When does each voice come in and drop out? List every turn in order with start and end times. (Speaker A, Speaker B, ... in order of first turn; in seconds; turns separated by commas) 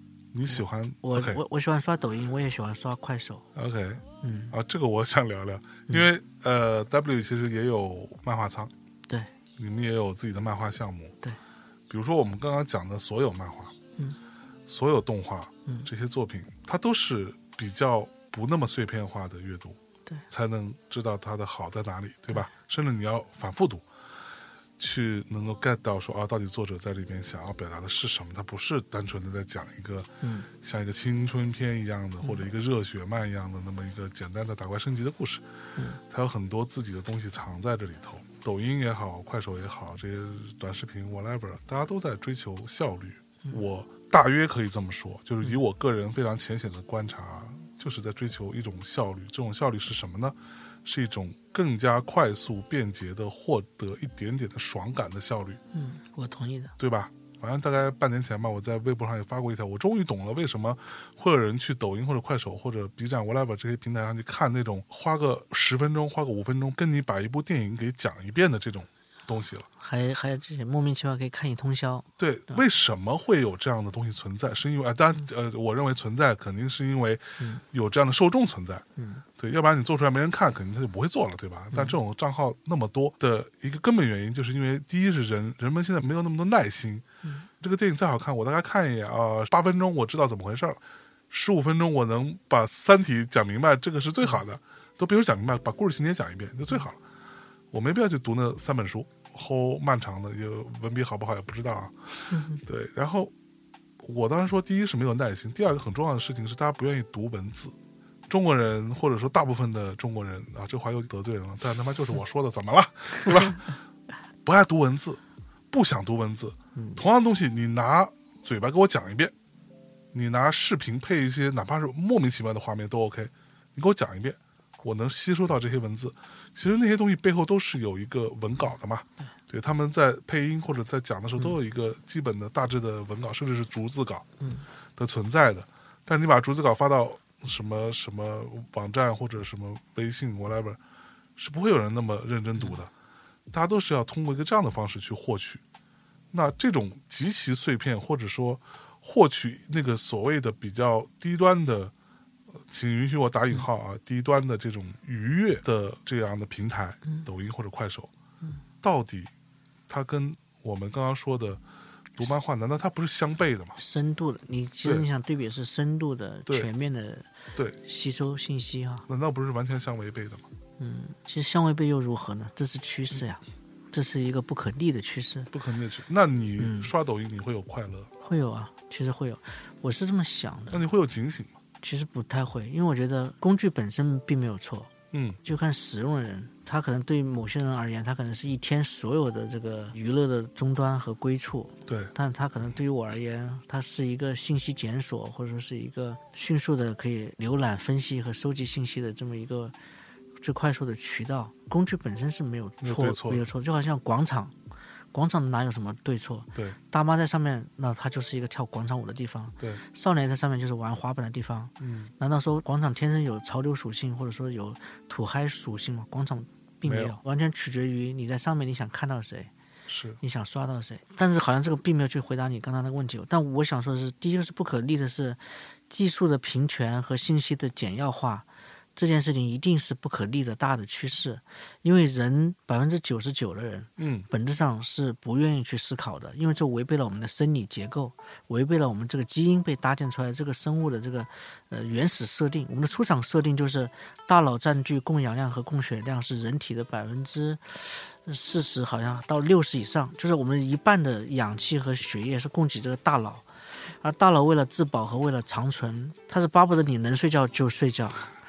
Speaker A: 0.3-1.4, Speaker B: 0.5-3.5, Speaker A: 3.5-8.7, Speaker B: 4.2-4.5, Speaker A: 9.6-11.2, Speaker A: 11.9-13.8, Speaker A: 14.7-19.8, Speaker A: 20.3-23.9, Speaker A: 24.8-35.4, Speaker B: 30.2-30.5, Speaker A: 36.0-55.6, Speaker B: 55.7-56.7, Speaker A: 56.8-69.7, Speaker B: 69.8-72.6, Speaker A: 72.2-78.8, Speaker B: 79.0-79.2, Speaker A: 79.4-87.0, Speaker A: 87.6-97.0, Speaker A: 97.7-103.3, Speaker B: 102.3-102.6, Speaker A: 104.0-107.8, Speaker A: 108.3-113.7, Speaker A: 114.4-119.3, Speaker B: 116.8-117.0, Speaker A: 120.1-134.3, Speaker B: 134.4-134.7, Speaker A: 135.0-140.8, Speaker A: 141.4-142.9, Speaker A: 143.5-145.6, Speaker A: 146.3-151.9, Speaker A: 152.6-158.1, Speaker A: 158.8-159.3, Speaker A: 159.9-161.6, Speaker A: 162.2-163.8, Speaker B: 163.8-167.3, Speaker B: 167.8-169.1, Speaker A: 169.1-170.5, Speaker B: 170.8-175.5, Speaker A: 175.5-178.1, Speaker B: 176.6-176.9, Speaker B: 178.2-180.8, Speaker A: 180.7-181.6, Speaker B: 181.8-184.9, Speaker A: 185.1-185.4, Speaker B: 185.4-199.8, Speaker A: 191.9-192.1, Speaker B: 200.4-204.5, Speaker A: 202.8-203.5, Speaker B: 205.1-219.5, Speaker A: 211.8-212.1, Speaker A: 216.8-217.2, Speaker A: 219.9-220.2, Speaker B: 220.2-253.5, Speaker A: 234.0-234.3, Speaker B: 254.0-258.3